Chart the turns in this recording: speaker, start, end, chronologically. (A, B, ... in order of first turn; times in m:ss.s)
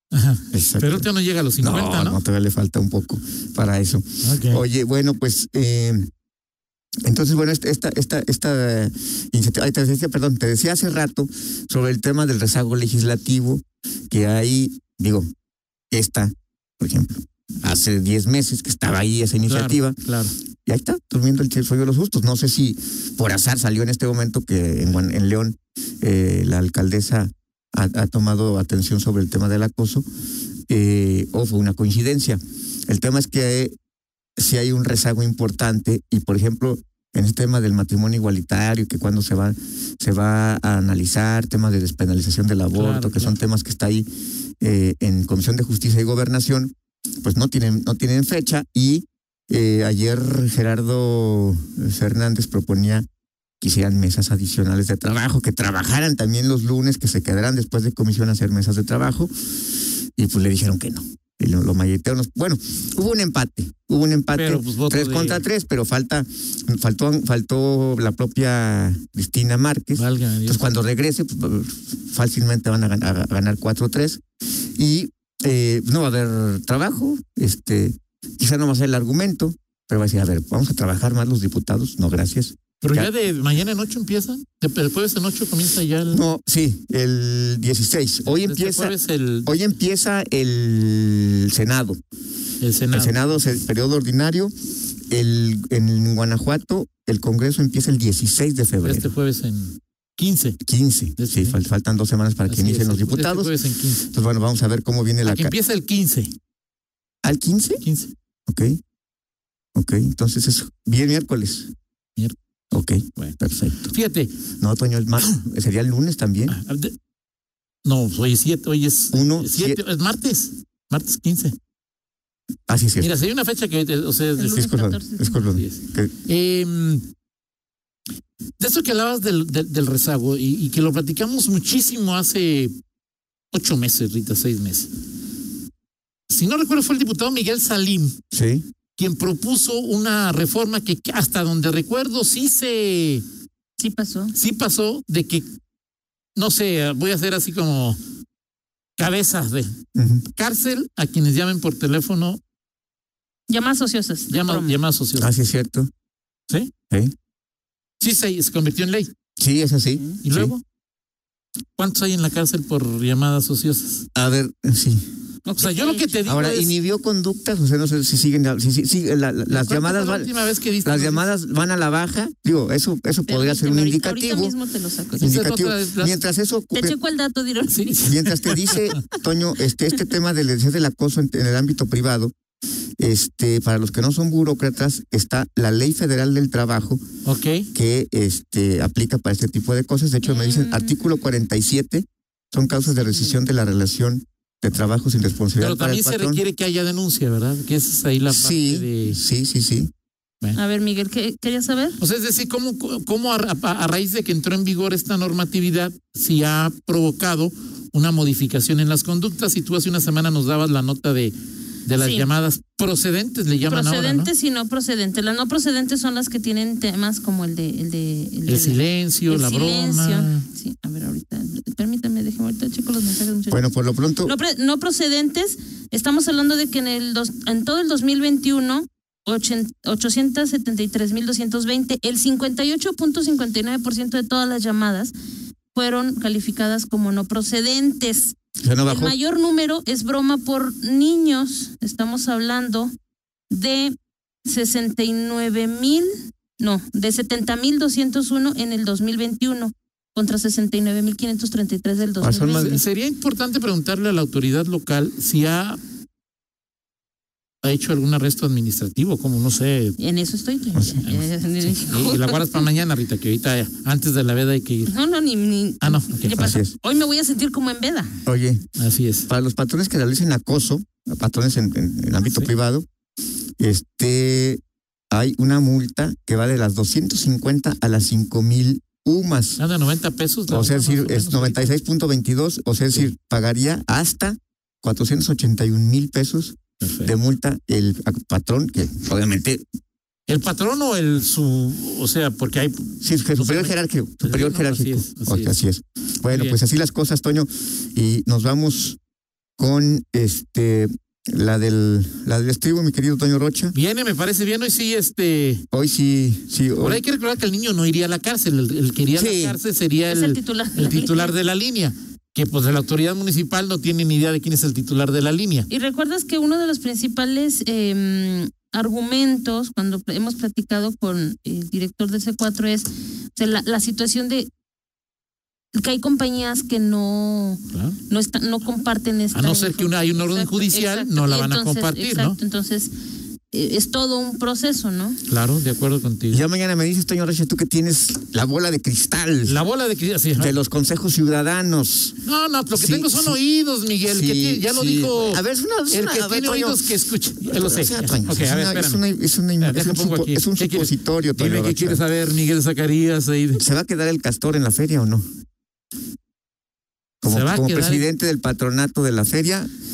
0:00.1-0:02.2 A
0:00.5-0:01.1 B
0:01.6-0:06.1 B
0:04.2-0:04.6 A
0:07.0-0:15.3 B
0:15.9-0:20.0 B
0:19.5-0:20.3 A
0:20.6-0:30.0 B
0:30.7-0:33.7 B
0:34.4-0:44.1 B
0:42.7-0:43.4 A
0:44.6-0:53.0 B
0:53.6-0:59.3 B
1:00.2-1:14.2 B
1:04.3-1:05.4 A
1:10.0-1:10.6 A
1:14.8-1:23.1 B
1:22.8-1:26.2 A
1:26.1-1:28.9 B
1:28.2-1:29.6 A
1:29.4-1:32.0 B
1:32.6-1:33.4 A
1:32.9-1:34.5 B
1:35.1-1:39.1 B
1:38.8-1:40.6 A
1:40.6-1:43.5 B
1:41.2-1:41.6 A
1:42.5-1:44.1 A
1:44.1-1:45.5 B
1:45.2-1:46.3 A
1:47.2-1:47.8 B
1:47.8-1:48.1 A
1:48.5-1:48.8 B
1:49.7-1:51.7 B
1:52.7-1:53.9 B
1:53.2-1:54.3 A
1:54.6-1:56.6 B
1:56.5-1:56.9 A
1:57.8-2:01.5 A
1:59.1-1:59.8 B
2:02.7-2:03.1 B
2:03.0-2:04.6 A
2:04.4-2:05.3 C
2:04.4-2:06.1 B
2:05.3-2:07.0 A
2:08.6-2:12.7 A
2:13.5-2:14.9 A
2:16.3-2:18.2 A
2:18.3-2:18.6 B
2:19.0-2:23.2 A
2:23.8-2:24.3 C
2:24.3-2:25.5 A
2:26.4-2:28.0 A
2:29.0-2:29.7 A
2:29.9-2:30.2 B
2:30.3-2:32.4 A
2:33.5-2:34.8 C
2:34.3-2:35.3 A
2:35.2-2:35.9 B
2:38.0-2:39.1 A
2:39.4-2:40.5 B
2:40.2-2:40.6 A
2:41.8-2:44.1 A
2:44.1-2:45.0 B
2:45.4-2:46.2 C
2:45.6-2:46.8 A
2:46.2-2:50.3 B
2:49.5-2:51.2 A
2:50.8-2:54.5 B
2:53.3-2:55.4 C
2:55.2-2:57.0 B
2:55.2-2:56.2 A
2:56.7-2:58.1 C
2:57.7-2:58.9 A
2:58.0-3:02.3 B
3:03.0-3:07.0 B
3:07.2-3:07.7 A
3:07.7-3:16.4 B
3:10.2-3:11.0 C
3:12.8-3:13.4 C
3:15.6-3:19.2 A
3:18.3-3:19.9 B
3:20.5-3:22.0 C
3:22.0-3:31.3 A
3:31.8-3:34.3 A
3:32.0-3:32.3 C
3:33.6-3:43.6 C
3:38.5-3:40.4 A
3:43.5-3:44.3 B
3:44.2-3:55.1 C
3:55.7-4:02.9 C
3:58.6-3:59.1 B
4:03.5-4:12.8 C
4:12.2-4:12.8 B
4:12.5-4:15.8 A
4:17.6-4:20.0 A
4:20.0-4:22.6 C
4:20.7-4:21.0 B
4:21.0-4:24.9 A
4:24.9-4:28.1 C
4:25.8-4:26.6 A
4:26.3-4:26.7 B
4:28.2-4:28.6 B
4:28.8-4:29.3 A
4:29.3-4:32.8 B
4:32.2-4:32.5 A
4:33.6-4:39.6 B
4:39.6-4:41.7 A
4:40.5-4:49.6 B
4:46.8-4:47.1 A
4:50.3-4:55.5 A
4:53.0-4:59.0 B
4:56.3-4:56.6 A
4:59.6-5:03.7 B
5:03.7-5:05.6 A
5:05.7-5:07.0 B
5:06.8-5:15.7 A
5:09.1-5:09.6 B
5:10.1-5:11.3 C
5:15.7-5:24.5 C
5:25.7-5:32.9 C
5:27.7-5:28.0 A
5:29.3-5:32.4 A
5:33.5-5:35.2 C
5:35.3-5:36.4 A
5:36.3-5:39.6 B
5:39.4-5:40.6 A
5:40.4-5:42.2 B
5:42.2-5:49.0 A
5:42.7-5:43.4 B
5:44.1-5:46.9 B
5:47.4-5:52.0 B
5:49.6-5:53.6 A
5:53.6-5:55.2 B
5:57.2-5:59.7 B
5:57.3-5:58.0 A